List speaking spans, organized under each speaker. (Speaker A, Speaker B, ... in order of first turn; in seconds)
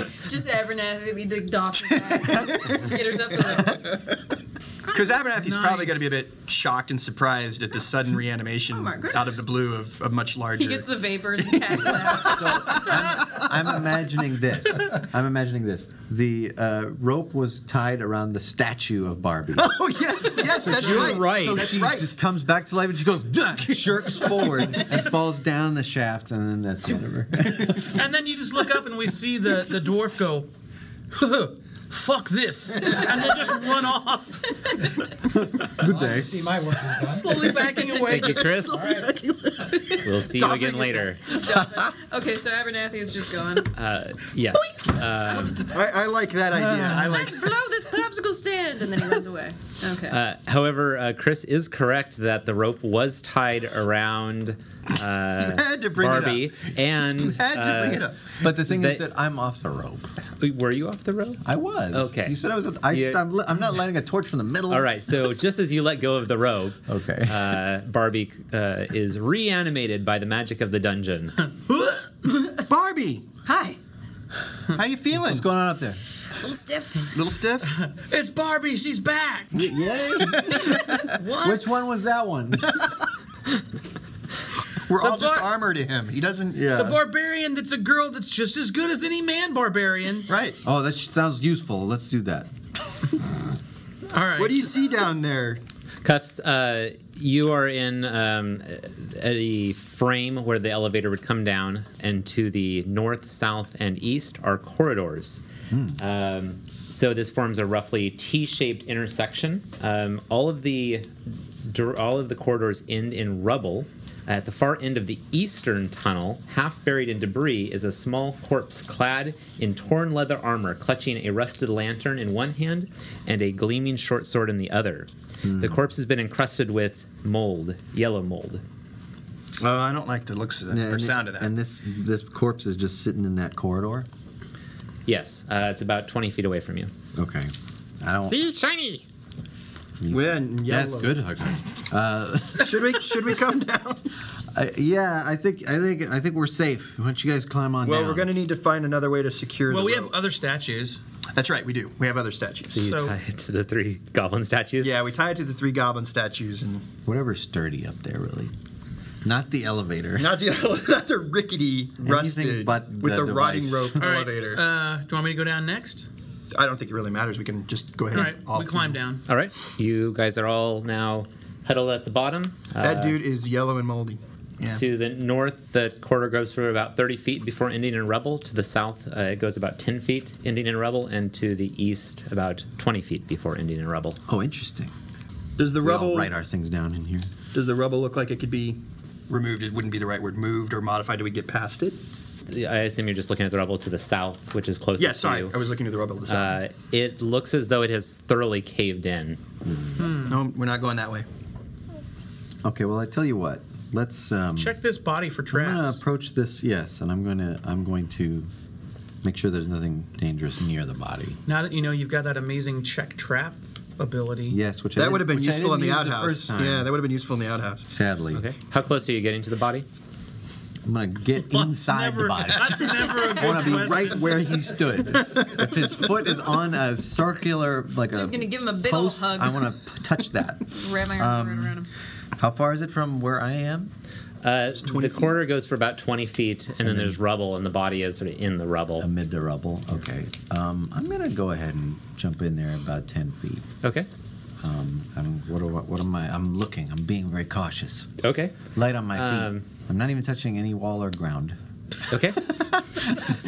Speaker A: 0.1-4.0, 8.7-9.3, 10.6-12.9, 41.2-43.7, 45.4-45.7, 46.8-50.2, 72.2-72.7, 73.5-73.8, 76.4-77.1, 228.1-229.7, 230.7-231.9
Speaker B: 4.9-11.0, 11.6-13.5, 19.6-22.1, 24.1-24.5, 38.0-41.2, 45.7-47.5, 55.4-58.4, 72.7-73.3, 74.7-75.5, 77.1-77.7, 80.2-81.0, 82.7-83.0, 84.9-86.8, 90.3-90.6, 94.4-95.6, 129.6-131.5, 140.1-141.2, 142.6-144.1, 147.8-150.1, 151.3-152.7, 154.8-156.9, 160.2-164.6, 166.5-169.0, 172.8-174.8, 185.6-186.3, 187.5-192.0, 195.0-196.6, 200.2-201.3, 215.0-217.9, 225.2-225.6, 234.8-235.4
Speaker C: 5.4-6.2, 27.9-30.5, 31.1-34.8, 37.0-38.9, 71.7-72.0, 77.7-79.5, 81.1-81.8, 85.0-85.5, 86.8-90.3, 94.1-94.7, 149.7-151.0, 152.8-153.1, 164.0-166.1, 168.1-169.2, 200.0-200.4, 204.6-206.0, 211.5-214.6, 221.4-224.4
Speaker D: 12.1-19.8, 20.3-28.0, 35.3-36.5, 41.5-41.9, 46.5-47.0, 58.4-60.1, 61.4-64.9, 66.9-67.5, 75.1-76.0, 79.5-82.9, 86.5-87.0, 90.6-92.5, 105.7-106.0, 125.4-125.8, 130.7-134.1, 137.2-138.4, 140.0-143.4, 144.5-148.3, 157.1-158.5, 159.2-160.4, 162.0-164.1, 184.3-184.9, 185.8-187.3, 199.6-200.2, 202.6-204.8, 205.5-208.5, 209.2-211.4, 214.5-216.9, 217.9-218.4, 220.8-231.8, 232.4-233.9, 236.8-237.2, 239.0-243.7, 244.6-248.2, 248.7-251.6, 252.4-253.4
Speaker E: 35.8-37.5, 38.7-39.1
Speaker F: 38.1-38.9, 40.0-41.2, 43.7-45.7, 50.1-59.0, 60.4-61.4, 61.9-62.4, 62.9-63.2, 64.7-71.5, 96.0-105.4, 106.0-111.1, 111.7-128.6, 135.1-136.9, 138.2-139.0, 152.7-155.0, 169.3-173.2, 174.7-184.2, 192.5-195.6, 196.3-199.4, 218.3-219.9, 234.4-239.1, 243.8-244.1, 248.2-248.6, 249.1-249.6, 252.1-252.4